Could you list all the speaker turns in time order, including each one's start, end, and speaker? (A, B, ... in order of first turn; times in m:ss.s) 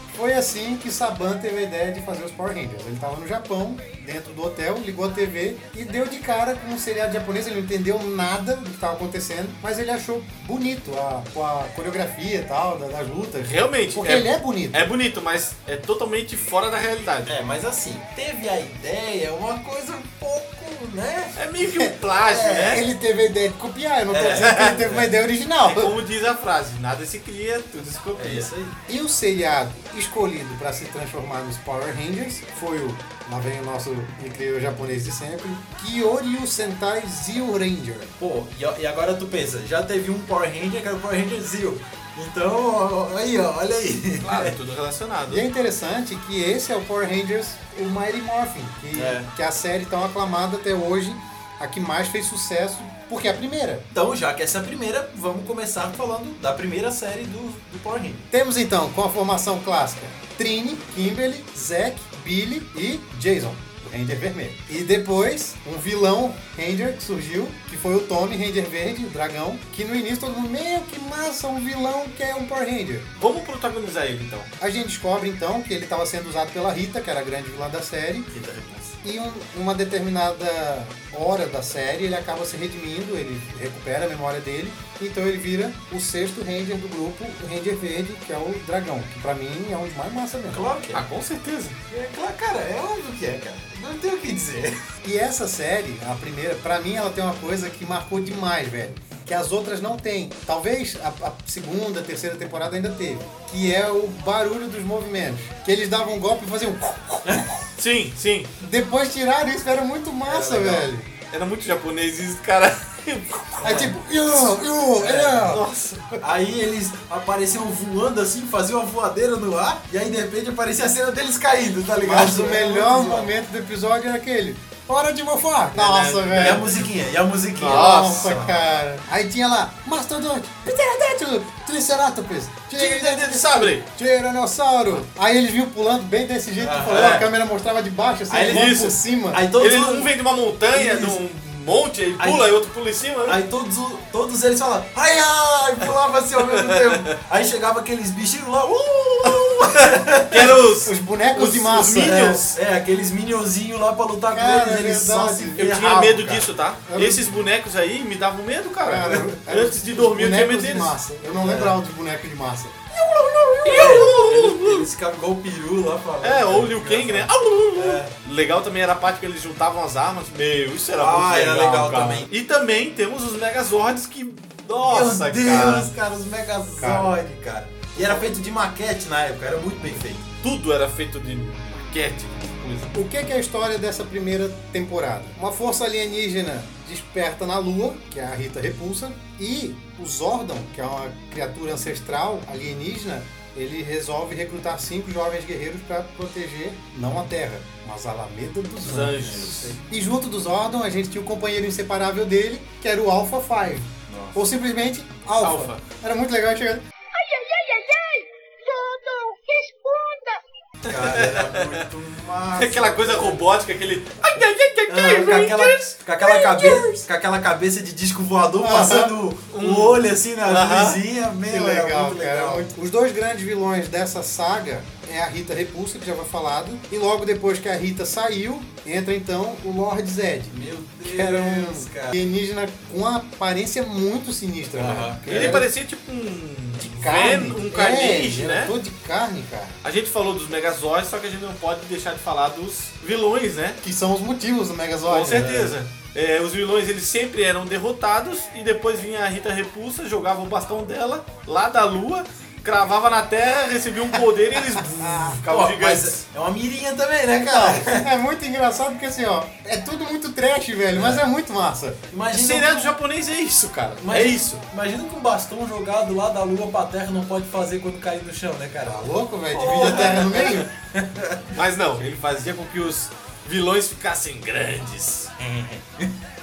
0:00.1-0:14.9 A
0:13.4-0:17.3 B
0:17.3-0:21.4 C
0:21.4-0:22.8 B
0:22.2-0:22.8 C
0:22.6-0:26.0 A
0:24.1-0:25.1 C
0:24.3-0:24.8 B
0:25.6-0:28.5 B
0:28.2-0:28.8 C
0:28.9-0:38.1 A
0:38.2-0:44.6 C
0:44.2-0:45.5 B
0:45.3-0:53.9 A
0:48.9-0:49.3 C
0:53.9-0:58.3 C
0:58.3-1:13.1 A
1:13.2-1:14.5 B
1:14.6-1:18.3 A
1:18.3-1:19.0 C
1:19.0-1:30.7 A
1:30.5-1:31.0 C
1:30.9-1:31.8 B
1:31.9-1:34.9 C
1:35.0-1:47.6 A
1:47.8-1:48.5 B
1:48.6-1:51.1 A
1:50.3-1:50.9 C
1:51.3-1:53.7 B
1:53.6-1:53.9 C
1:53.6-1:55.6 A
1:55.0-1:55.4 C
1:55.3-1:56.2 B
1:56.2-2:03.3 C
2:02.0-2:06.7 A
2:05.8-2:06.8 B
2:06.4-2:08.5 C
2:07.6-2:08.4 B
2:07.7-2:19.4 A
2:12.7-2:13.9 B
2:16.6-2:17.3 C
2:18.3-2:20.1 C
2:18.5-2:19.0 B
2:19.6-2:23.4 B
2:20.7-2:21.2 C
2:22.2-2:22.5 C
2:23.3-2:30.6 C
2:26.6-2:27.0 B
2:29.6-2:32.6 B
2:30.8-2:32.4 A
2:32.0-2:36.5 C
2:34.3-2:35.7 A
2:35.6-2:41.0 B
2:36.9-2:37.4 A
2:38.8-2:42.8 A
2:41.4-2:41.8 C
2:42.9-2:48.1 C
2:43.6-2:44.9 B
2:43.8-2:44.0 A
2:46.2-2:55.9 B
2:51.0-2:52.3 C
2:54.8-3:00.3 C
3:00.4-3:02.9 B
3:02.9-3:26.8 A
3:18.8-3:19.7 B
3:19.3-3:19.7 C
3:24.1-3:24.4 C
3:25.4-3:25.8 B
3:27.1-3:30.4 D
3:30.8-3:33.4 C
3:30.9-3:31.8 B
3:32.6-3:36.0 B
3:34.9-3:42.7 C
3:36.2-3:37.0 A
3:38.6-3:39.2 A
3:39.5-3:41.0 B
3:41.5-3:55.7 A
3:50.5-3:52.2 C
3:54.8-3:55.6 C
3:55.3-3:58.8 B
3:56.8-3:59.8 A
3:59.8-4:03.8 B
4:03.8-4:05.8 A
4:05.1-4:16.2 B
4:14.8-4:15.3 A
4:15.5-4:18.1 C
4:17.3-4:22.0 A
4:20.9-4:21.2 C
4:22.1-4:22.9 C
4:22.3-4:24.6 B
4:24.0-4:31.5 C
4:28.8-4:30.7 A
4:29.6-4:30.7 B
4:31.5-4:35.5 B
4:35.5-4:36.2 C